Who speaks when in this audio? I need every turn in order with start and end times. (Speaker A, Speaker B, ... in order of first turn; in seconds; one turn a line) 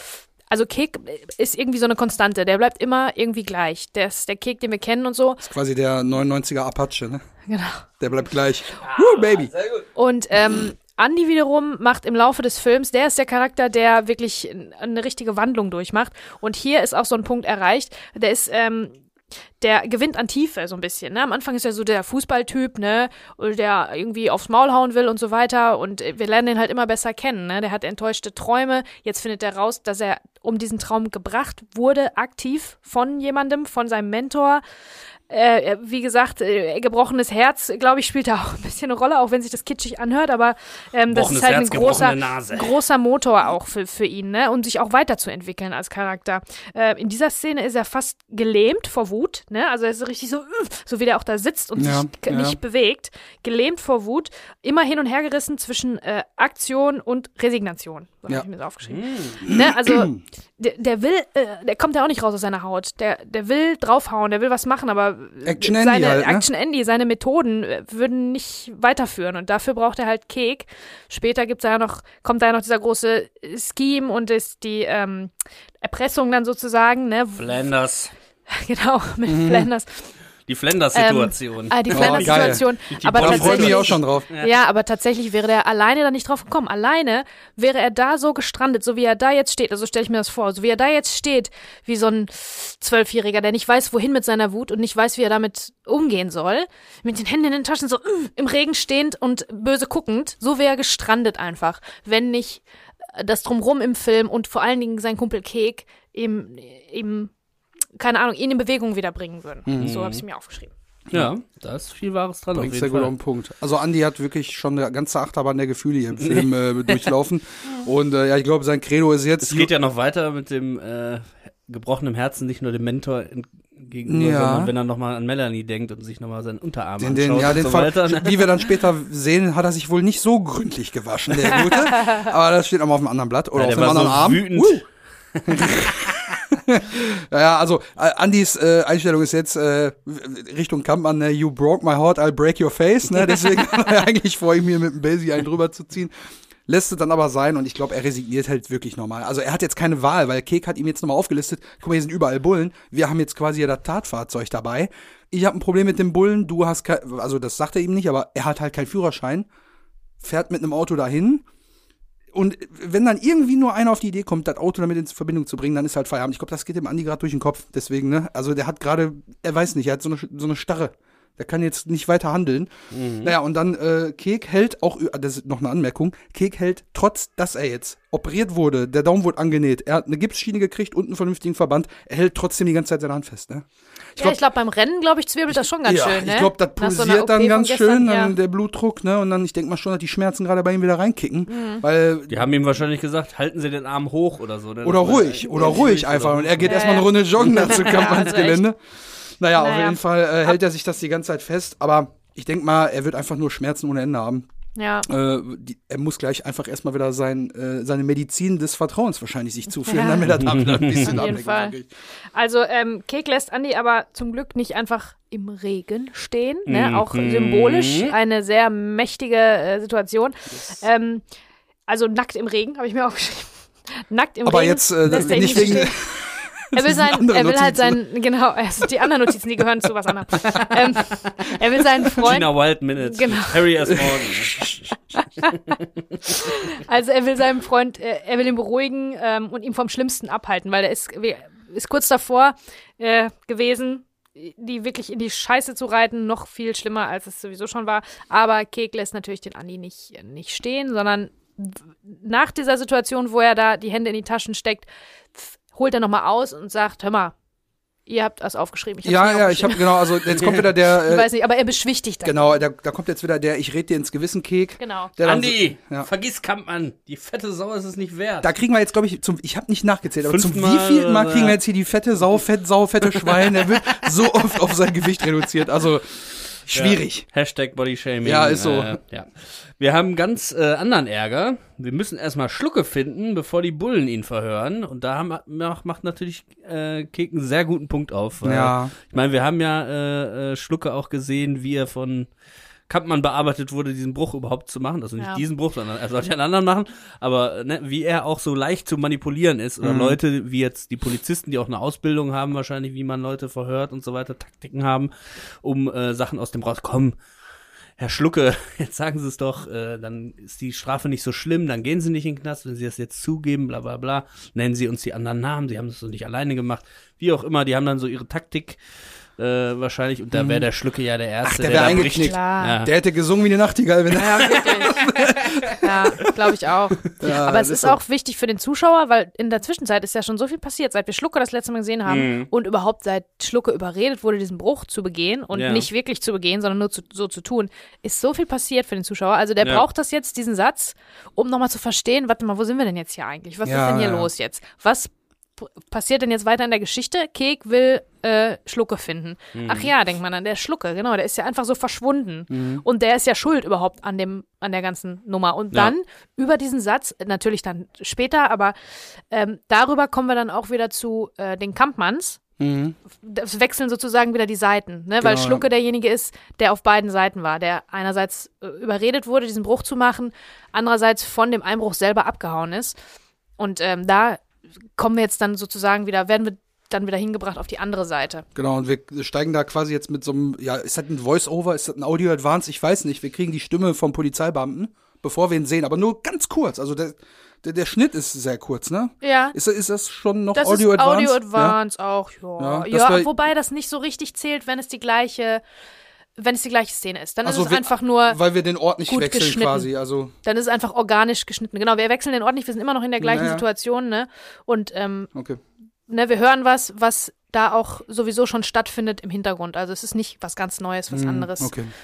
Speaker A: 0.4-5.4
Speaker B: 5.4-7.2
Speaker A: 7.5-7.8
Speaker B: 8.0-9.5
Speaker C: 8.8-9.8
Speaker A: 9.9-18.9
Speaker A: 19.6-34.6
Speaker A: 35.3-77.5
Speaker C: 41.1-42.8
Speaker B: 51.8-52.6
Speaker C: 58.9-59.4
Speaker B: 59.4-60.2
Speaker B: 65.4-66.5
Speaker C: 77.4-78.1
Speaker A: 78.5-80.1
Speaker B: 79.3-79.7
Speaker C: 80.5-84.6
Speaker A: 80.9-107.3
Speaker B: 81.9-84.2
Speaker A: 108.0-110.7
Speaker B: 109.7-110.0
Speaker C: 109.8-110.2
Speaker C: 111.1-113.1
Speaker B: 112.5-119.7
Speaker C: 116.2-117.1
Speaker C: 119.4-128.8
Speaker B: 124.0-124.7
Speaker B: 127.0-134.8
Speaker C: 133.5-136.3
Speaker B: 135.5-146.1
Speaker B: 146.7-159.5
Speaker B: 160.2-161.4
Speaker B: 162.3-184.4
Speaker C: 172.9-173.3
Speaker A: 184.2-188.3
Speaker B: 185.5-192.4
Speaker A: 191.5-191.8
Speaker C: 192.3-197.0
Speaker B: 194.8-204.5
Speaker A: 196.6-198.6
Speaker C: 197.5-197.8
Speaker A: 199.6-200.5
Speaker A: 204.8-205.1
Speaker B: 205.1-211.9
Speaker A: 209.9-210.4
Speaker C: 210.3-211.2
Speaker A: 211.0-211.7
Speaker A: 212.3-221.2
Speaker C: 216.7-218.1
Speaker A: 221.9-225.9
Speaker B: 224.4-228.0
Speaker A: 226.7-234.0
Speaker C: 232.1-234.9
Speaker B: 234.0-234.7
Speaker A: 235.2-257.3
Speaker C: 235.5-236.4
Speaker A: 258.1-262.4
Speaker B: 259.0-261.3
Speaker B: 262.2-266.1
Speaker A: 264.8-265.1
Speaker C: 265.2-268.5
Speaker B: 268.4-277.2
Speaker C: 270.2-271.6
Speaker C: 273.0-274.4
Speaker C: 276.7-292.3
Speaker B: 278.2-279.0
Speaker B: 288.4-288.9
Speaker C: 292.9-307.1
Speaker A: 295.2-295.4
Speaker B: 299.8-300.2
Speaker C: 308.0-318.8
Speaker C: 319.4-322.9
Speaker B: 320.3-320.7
Speaker B: 321.4-325.9
Speaker A: 321.9-322.8
Speaker A: 324.1-325.1
Speaker C: 324.5-326.3
Speaker A: 325.7-362.4
Speaker B: 327.2-328.0
Speaker C: 332.1-332.5
Speaker C: 335.5-335.9
Speaker B: 343.6-344.3
Speaker C: 349.5-349.9
Speaker B: 352.5-352.8
Speaker B: 362.6-362.9
Speaker A: 363.1-373.0
Speaker B: 365.2-365.6
Speaker A: 373.6-374.4
Speaker A: 374.9-378.4
Speaker B: 378.6-391.8
Speaker A: 389.2-389.6
Speaker A: 390.5-395.6
Speaker B: 392.6-393.3
Speaker A: 396.4-398.4
Speaker B: 397.4-400.3
Speaker A: 399.1-399.9
Speaker A: 400.4-405.3
Speaker B: 403.2-403.6
Speaker B: 405.3-405.6
Speaker A: 406.1-411.8
Speaker B: 411.1-411.9